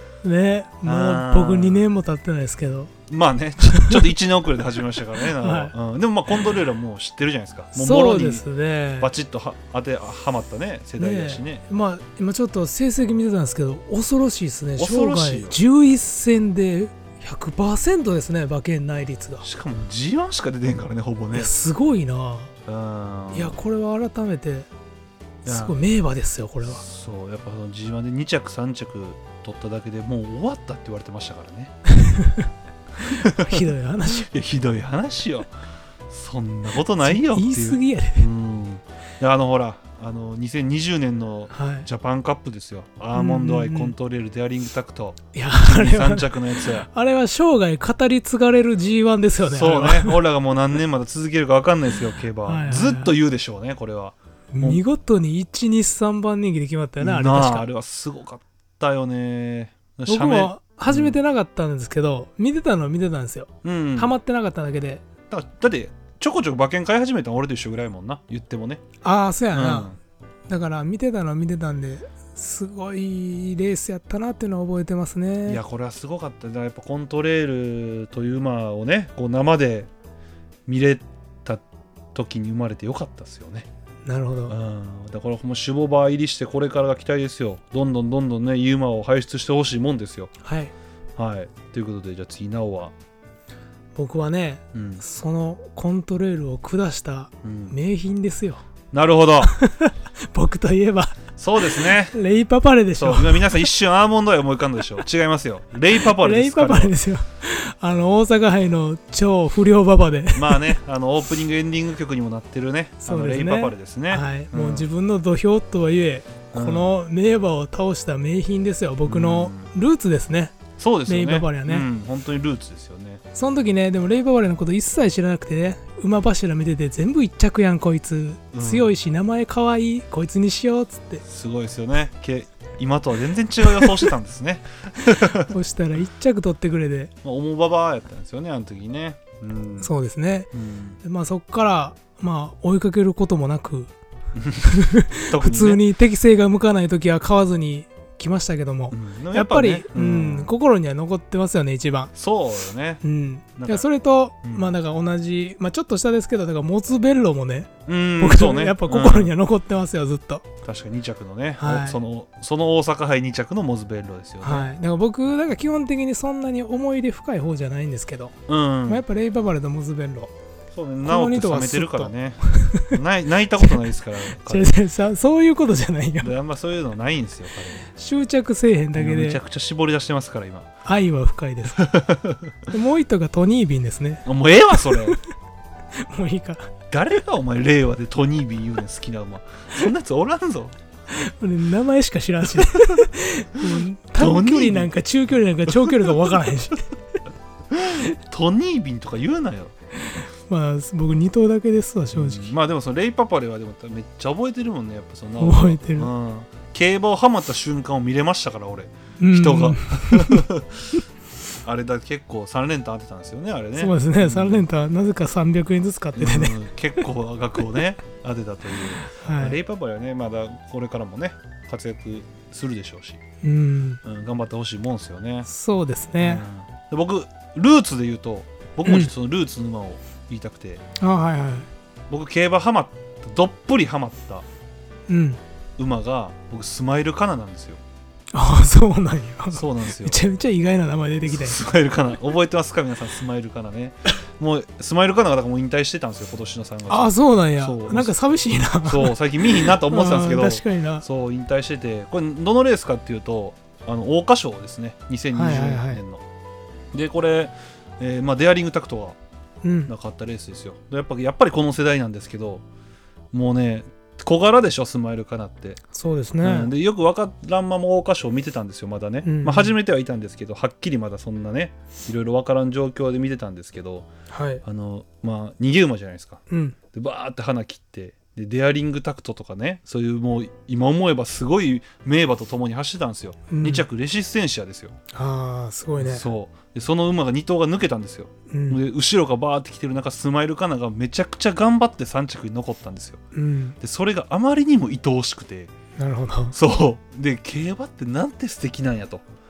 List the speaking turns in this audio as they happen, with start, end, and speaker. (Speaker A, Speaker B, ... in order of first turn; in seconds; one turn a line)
Speaker A: 0.2-2.9
Speaker B: 0.8-1.8
Speaker B: 3.1-8.4
Speaker A: 3.7-4.0
Speaker A: 5.4-5.7
Speaker A: 7.7-9.1
Speaker B: 9.0-11.6
Speaker A: 11.0-19.5
Speaker B: 14.8-15.6
Speaker B: 19.4-21.5
Speaker A: 21.3-22.5
Speaker B: 22.6-23.6
Speaker A: 23.3-24.7
Speaker A: 25.4-26.8
Speaker B: 25.4-25.8
Speaker B: 26.6-31.7
Speaker A: 31.9-32.5
Speaker A: 33.1-34.3
Speaker B: 33.1-33.6
Speaker B: 34.2-35.5
Speaker B: 36.1-46.9
Speaker A: 37.0-38.3
Speaker A: 41.5-41.9
Speaker A: 43.1-43.9
Speaker A: 45.3-50.2
Speaker B: 49.5-54.8
Speaker A: 52.4-53.1
Speaker A: 54.5-57.7
Speaker B: 57.0-61.2
Speaker A: 60.1-65.0
Speaker B: 63.6-64.1
Speaker B: 65.3-68.8
Speaker A: 69.0-69.9
Speaker B: 69.5-70.0
Speaker A: 70.5-75.6
Speaker B: 75.5-79.9
Speaker B: 80.7-81.6
Speaker B: 82.1-83.7
Speaker A: 84.0-84.5
Speaker B: 84.5-90.3
Speaker A: 90.4-90.7
Speaker B: 91.2-92.9
Speaker A: 93.9-98.6
Speaker B: 94.7-95.0
Speaker B: 97.4-97.8
Speaker B: 98.9-99.5
Speaker A: 99.5-103.7
Speaker B: 101.4-102.1
Speaker B: 102.9-106.9
Speaker A: 106.1-110.7
Speaker B: 110.3-114.9
Speaker A: 113.0-121.9
Speaker B: 116.5-116.9
Speaker B: 119.0-119.7
Speaker B: 120.8-123.2
Speaker A: 123.3-131.2
Speaker B: 128.5-128.9
Speaker B: 131.2-135.5
Speaker A: 135.1-137.1
Speaker B: 137.2-139.9
Speaker A: 139.8-140.5
Speaker B: 140.5-141.0
Speaker A: 141.0-143.9
Speaker B: 144.3-145.8
Speaker A: 144.7-152.1
Speaker B: 148.9-150.5
Speaker B: 152.1-153.0
Speaker A: 153.0-160.4
Speaker B: 153.6-153.9
Speaker B: 154.4-154.7
Speaker B: 157.9-159.3
Speaker B: 160.6-164.7
Speaker A: 161.6-162.0
Speaker A: 164.4-168.3
Speaker B: 168.5-169.0
Speaker A: 168.9-170.3
Speaker B: 170.7-174.8
Speaker A: 171.0-173.0
Speaker A: 174.3-176.3
Speaker B: 176.2-177.9
Speaker A: 177.9-179.4
Speaker B: 178.9-180.7
Speaker A: 180.8-181.8
Speaker B: 181.8-182.4
Speaker A: 182.7-185.2
Speaker B: 184.2-185.2
Speaker A: 186.0-186.7
Speaker B: 186.9-190.8
Speaker A: 191.1-196.8
Speaker B: 192.6-193.1
Speaker B: 194.2-194.9
Speaker B: 195.7-196.4
Speaker B: 197.7-199.7
Speaker A: 200.0-202.5
Speaker B: 202.1-211.0
Speaker A: 205.4-206.1
Speaker A: 209.2-210.4
Speaker B: 211.6-214.6
Speaker A: 213.8-216.6
Speaker B: 216.2-223.2
Speaker A: 219.2-219.6
Speaker A: 223.4-224.0
Speaker B: 224.0-225.5
Speaker A: 225.4-226.4
Speaker B: 226.2-230.8
Speaker A: 228.8-229.1
Speaker A: 231.0-231.7
Speaker B: 232.1-234.4
Speaker A: 235.1-235.4
Speaker B: 235.8-237.8
Speaker A: 238.3-241.6
Speaker B: 239.5-240.2
Speaker B: 241.3-248.1
Speaker A: 246.9-251.0
Speaker B: 248.8-256.2
Speaker A: 255.3-256.0
Speaker B: 256.9-259.2
Speaker A: 259.6-259.9
Speaker B: 259.9-262.6
Speaker B: 263.3-265.8
Speaker A: 265.9-266.7
Speaker B: 266.4-274.1
Speaker A: 269.2-269.7
Speaker A: 274.3-274.6
Speaker B: 274.6-276.4
Speaker A: 276.5-276.8
Speaker B: 276.9-284.9
Speaker A: 283.5-283.8
Speaker A: 285.1-286.2
Speaker B: 286.0-293.2
Speaker A: 288.5-288.8
Speaker A: 293.3-293.8
Speaker B: 293.8-295.7
Speaker A: 296.0-296.5
Speaker B: 296.5-299.2